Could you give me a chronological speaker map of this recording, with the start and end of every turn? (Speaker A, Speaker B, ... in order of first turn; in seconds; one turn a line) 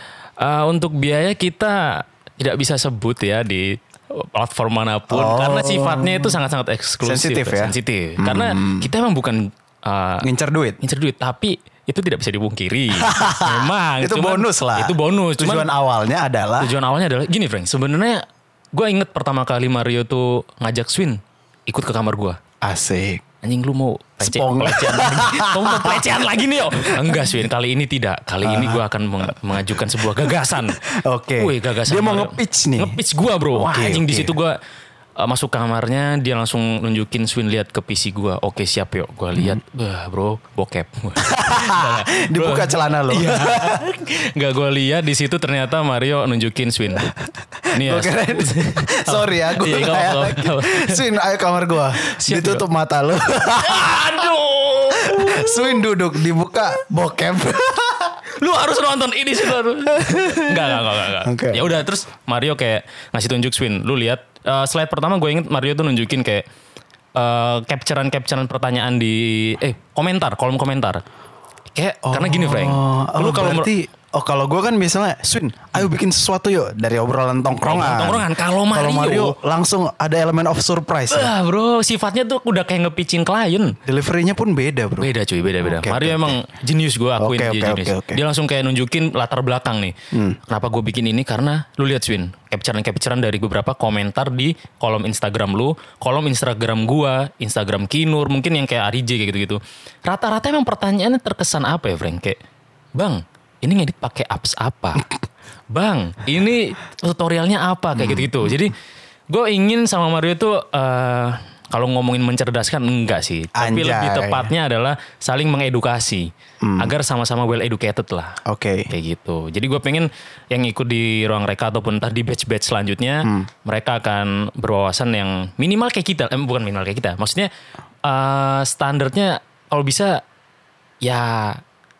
Speaker A: 0.4-10.3
Speaker B: 5.1-6.4
Speaker B: 7.0-8.9
Speaker B: 10.2-10.8
Speaker A: 10.8-15.7
Speaker B: 13.0-16.7
Speaker A: 16.6-22.4
Speaker B: 22.6-23.2
Speaker A: 23.4-30.8
Speaker B: 24.2-26.0
Speaker B: 26.8-27.3
Speaker B: 28.4-33.0
Speaker A: 31.4-34.6
Speaker B: 33.5-34.4
Speaker A: 35.2-47.1
Speaker B: 39.3-39.6
Speaker B: 41.2-43.8
Speaker A: 47.7-51.0
Speaker B: 47.8-54.2
Speaker A: 52.0-52.6
Speaker A: 53.5-55.8
Speaker B: 55.0-58.2
Speaker A: 58.3-66.5
Speaker B: 59.9-61.8
Speaker A: 67.1-71.0
Speaker A: 71.7-73.7
Speaker B: 72.0-81.3
Speaker A: 77.6-79.3
Speaker A: 81.1-83.8
Speaker B: 83.8-85.1
Speaker A: 85.0-89.9
Speaker B: 85.6-86.4
Speaker B: 87.2-88.2
Speaker B: 90.1-90.4
Speaker A: 90.5-102.4
Speaker A: 103.0-105.1
Speaker A: 105.7-108.7
Speaker B: 107.9-108.6
Speaker A: 109.3-127.5
Speaker B: 113.5-114.5
Speaker B: 116.6-116.9
Speaker B: 118.4-118.9
Speaker A: 128.0-130.2
Speaker A: 131.0-131.6